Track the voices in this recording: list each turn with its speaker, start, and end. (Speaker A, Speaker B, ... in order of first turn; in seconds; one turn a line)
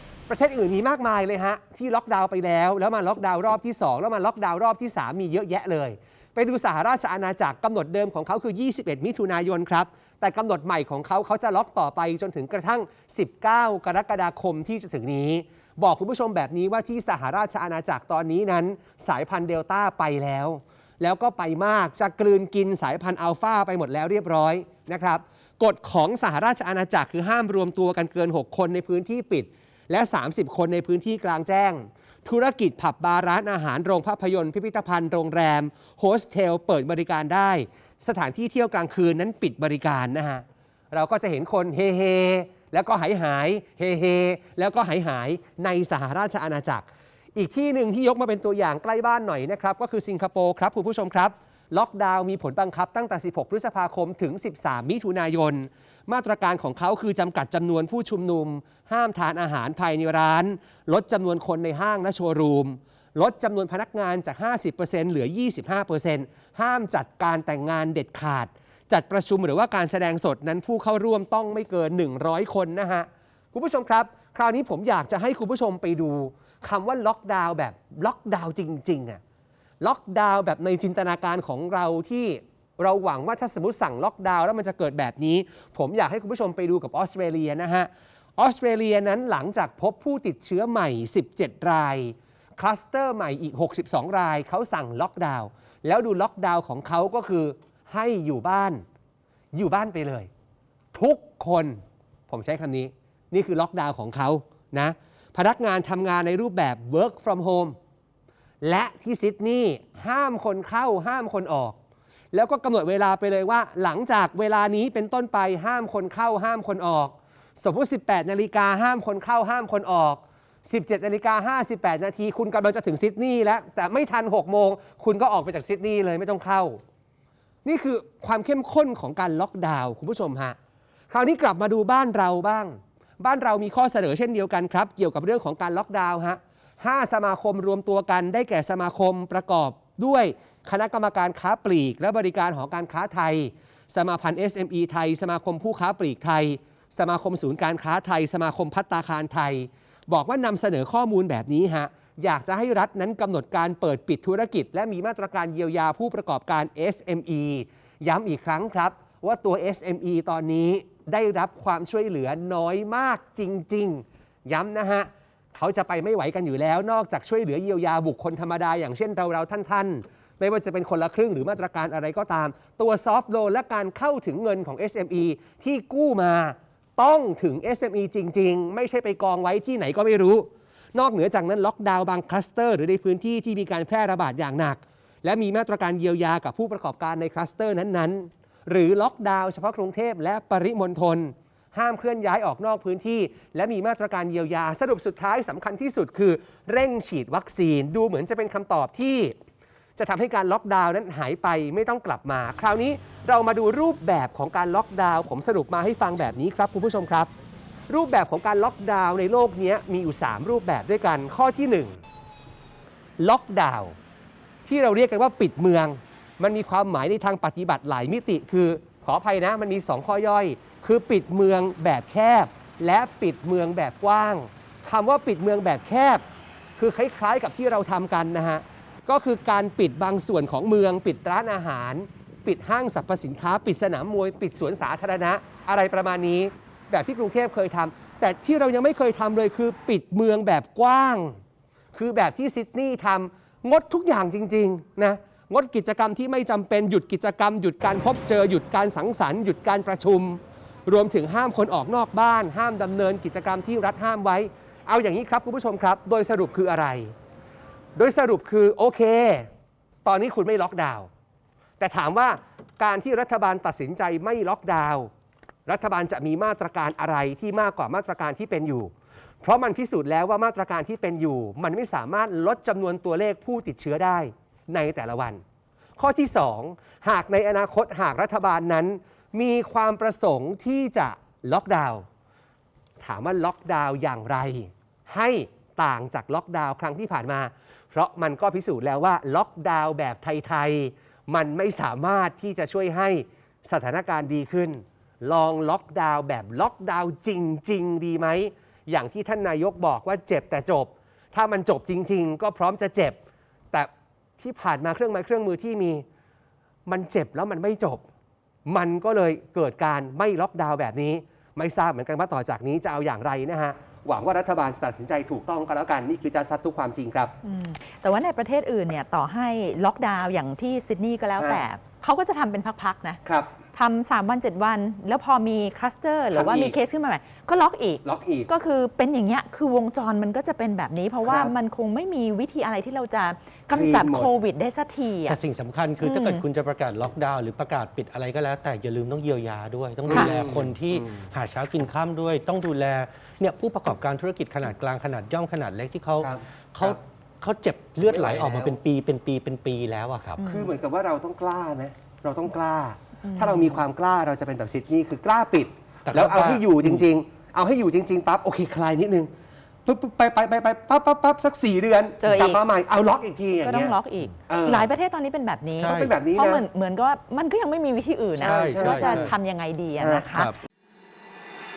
Speaker A: 0.3-79.2
Speaker A: 79.8-98.8
Speaker A: 99.5-100.3
Speaker A: 100.9-107.8
Speaker A: 108.6-111.8
Speaker A: 112.3-126.8
Speaker A: 127.6-130.6
Speaker A: 131.1-199.3
Speaker A: 200.0-207.3
Speaker A: 207.9-212.0
Speaker A: 213.2-213.9
Speaker A: 214.6-226.2
Speaker A: 226.8-241.4
Speaker A: 241.9-257.1
Speaker A: 257.9-259.5
Speaker A: 260.0-261.1
Speaker A: 261.8-265.1
Speaker A: 265.6-275.4
Speaker A: 276.0-282.1
Speaker A: 283.0-303.2
Speaker A: 303.7-306.0
Speaker A: 306.9-308.0
Speaker A: 308.6-317.3
Speaker B: 317.4-323.2
Speaker A: 321.4-321.6
Speaker A: 323.2-323.5
Speaker B: 323.7-335.4
Speaker A: 326.3-326.8
Speaker A: 328.0-328.5
Speaker A: 331.2-331.5
Speaker A: 333.7-334.4
Speaker C: 335.2-350.4
Speaker B: 336.0-336.4
Speaker A: 340.1-341.2
Speaker A: 346.2-347.0
Speaker A: 348.1-348.8
Speaker A: 350.4-359.3
Speaker B: 350.4-350.7
Speaker B: 353.3-353.8
Speaker C: 356.0-357.1
Speaker A: 359.9-364.9
Speaker B: 362.2-362.6
Speaker B: 363.6-370.5
Speaker A: 365.8-366.6
Speaker C: 365.8-366.1
Speaker A: 368.4-369.3
Speaker C: 368.4-369.3
Speaker A: 370.0-370.3